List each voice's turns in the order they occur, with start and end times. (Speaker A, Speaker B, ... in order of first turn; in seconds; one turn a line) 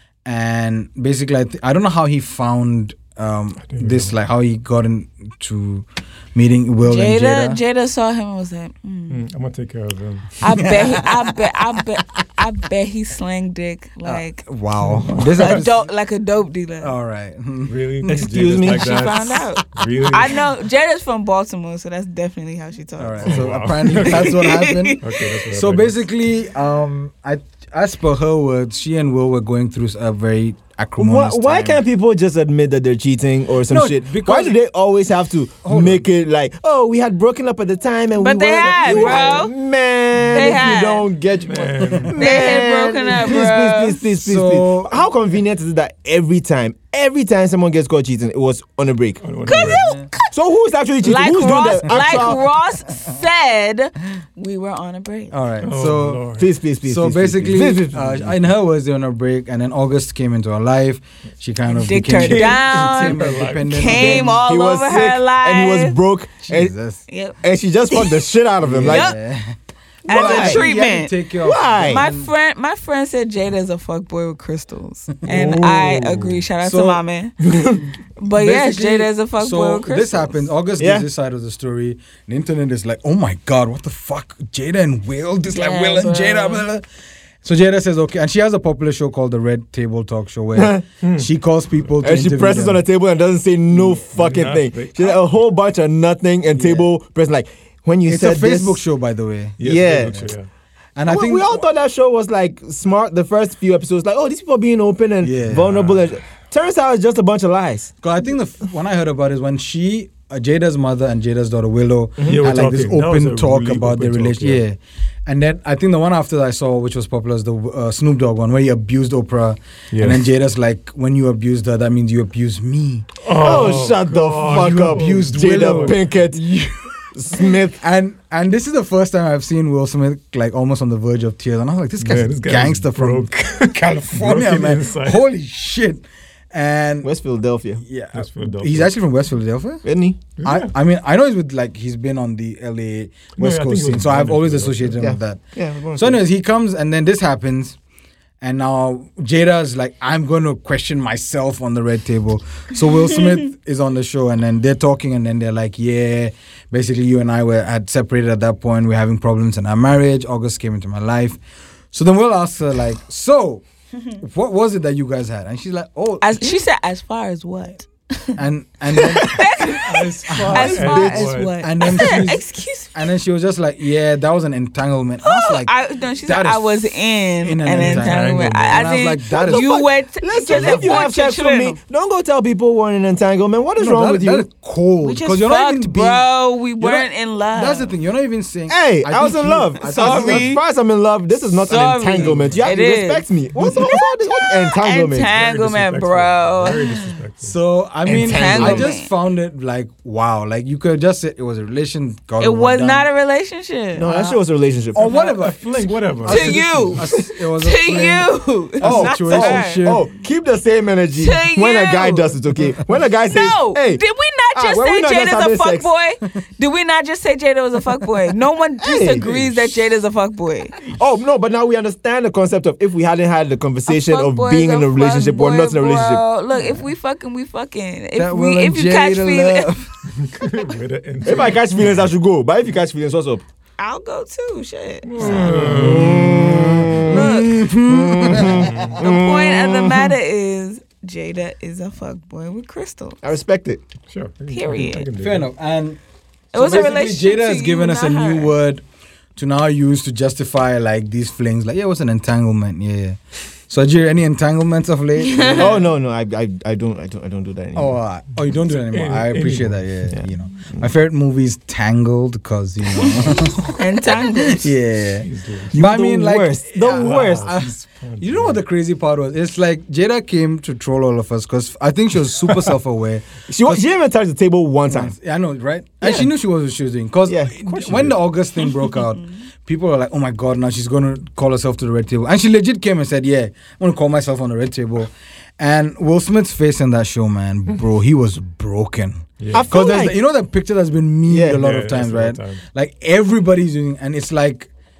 Speaker A: 0.2-7.6
Speaker B: 3.6-4.1
Speaker C: 6.8-9.2
Speaker B: 9.1-10.7
Speaker C: 10.4-14.5
Speaker A: 10.5-11.3
Speaker A: 14.0-15.8
Speaker B: 14.8-15.5
Speaker C: 15.3-16.9
Speaker A: 16.8-18.1
Speaker B: 17.7-20.4
Speaker D: 18.1-19.1
Speaker C: 18.6-25.2
Speaker A: 23.0-31.8
Speaker B: 23.2-24.5
Speaker B: 25.0-26.0
Speaker D: 31.0-49.2
Speaker A: 33.7-34.5
Speaker A: 35.6-36.0
Speaker C: 38.1-39.5
Speaker B: 38.8-39.4
Speaker C: 40.3-41.1
Speaker B: 41.4-42.2
Speaker A: 41.8-42.1
Speaker C: 42.1-44.0
Speaker A: 43.2-43.5
Speaker A: 44.1-45.0
Speaker B: 49.2-49.8
Speaker C: 49.5-50.3
Speaker A: 49.6-50.1
Speaker D: 50.3-52.4
Speaker C: 51.0-55.3
Speaker A: 52.0-52.3
Speaker A: 55.3-56.2
Speaker B: 55.6-56.5
Speaker D: 56.4-58.4
Speaker A: 56.8-64.4
Speaker C: 61.7-66.0
Speaker B: 62.1-64.2
Speaker D: 63.9-66.7
Speaker A: 66.5-67.0
Speaker C: 67.1-67.4
Speaker D: 67.4-69.2
Speaker C: 67.9-68.2
Speaker A: 68.6-69.5
Speaker C: 68.8-69.2
Speaker C: 70.0-71.1
Speaker D: 70.1-70.7
Speaker A: 70.1-72.3
Speaker D: 71.4-72.0
Speaker C: 71.8-77.4
Speaker B: 75.2-76.4
Speaker A: 76.6-77.0
Speaker D: 77.5-77.8
Speaker C: 78.2-80.5
Speaker A: 78.3-86.8
Speaker D: 80.8-81.0
Speaker C: 85.5-86.6
Speaker A: 87.4-92.8
Speaker D: 90.5-90.8
Speaker B: 91.0-91.3
Speaker D: 92.0-98.8
Speaker B: 94.2-95.2
Speaker A: 96.5-96.8
Speaker A: 98.1-99.6
Speaker B: 99.6-100.5
Speaker D: 99.6-100.3
Speaker A: 101.0-101.6
Speaker D: 101.1-107.9
Speaker A: 105.2-105.8
Speaker B: 105.5-106.0
Speaker A: 108.0-123.1
Speaker D: 112.2-112.4
Speaker B: 112.2-114.6
Speaker B: 119.9-120.2
Speaker B: 123.2-126.0
Speaker D: 123.3-126.4
Speaker A: 124.5-127.0
Speaker D: 127.1-127.8
Speaker A: 127.5-137.1
Speaker B: 132.0-135.2
Speaker D: 137.0-137.8
Speaker A: 137.8-139.8
Speaker B: 138.1-138.9
Speaker D: 139.8-140.2
Speaker B: 140.4-140.7
Speaker A: 140.4-145.4
Speaker B: 143.4-145.1
Speaker D: 145.0-146.2
Speaker A: 145.9-147.8
Speaker A: 148.4-161.4
Speaker A: 161.9-163.6
Speaker A: 164.2-166.6
Speaker C: 166.2-168.4
Speaker A: 168.3-169.4
Speaker D: 169.0-169.4
Speaker C: 169.2-173.0
Speaker B: 169.8-172.2
Speaker A: 170.3-175.7
Speaker C: 175.2-181.8
Speaker A: 176.2-179.8
Speaker B: 177.7-178.9
Speaker D: 179.3-184.4
Speaker A: 183.8-186.2
Speaker C: 185.0-187.9
Speaker A: 186.8-190.5
Speaker D: 188.7-195.3
Speaker C: 189.8-190.6
Speaker C: 191.6-197.2
Speaker A: 192.1-192.7
Speaker A: 193.5-194.0
Speaker B: 195.2-197.6
Speaker A: 197.4-203.1
Speaker D: 198.1-198.9
Speaker C: 198.1-199.1
Speaker C: 202.4-204.1
Speaker D: 203.9-205.1
Speaker A: 204.9-210.1
Speaker B: 205.0-207.0
Speaker C: 206.2-209.9
Speaker D: 208.8-214.0
Speaker C: 211.2-212.3
Speaker C: 213.2-220.7
Speaker D: 214.5-215.9
Speaker D: 218.8-219.3
Speaker B: 220.8-221.0
Speaker D: 220.9-226.2
Speaker C: 223.9-229.7
Speaker A: 226.5-226.8
Speaker A: 228.2-229.9
Speaker B: 230.2-232.0
Speaker D: 231.2-233.4
Speaker C: 233.8-235.7
Speaker B: 235.1-237.0
Speaker D: 235.2-240.1
Speaker A: 235.4-238.8
Speaker C: 237.0-237.7
Speaker B: 238.4-239.0
Speaker C: 238.9-243.2
Speaker D: 243.2-243.8
Speaker B: 244.1-245.5
Speaker C: 244.5-245.1
Speaker A: 245.2-246.0
Speaker C: 246.5-248.5
Speaker A: 246.5-248.8
Speaker A: 249.3-255.7
Speaker C: 255.2-255.8
Speaker D: 255.5-258.0
Speaker A: 257.7-273.8
Speaker B: 258.9-259.8
Speaker D: 260.1-260.9
Speaker C: 263.7-264.7
Speaker B: 265.2-265.8
Speaker D: 265.7-267.5
Speaker B: 266.8-268.6
Speaker D: 273.5-275.1
Speaker A: 274.9-294.7
Speaker D: 276.0-276.3
Speaker D: 277.3-278.1
Speaker B: 289.4-289.7
Speaker D: 289.5-290.1
Speaker D: 291.3-291.6
Speaker B: 291.4-292.6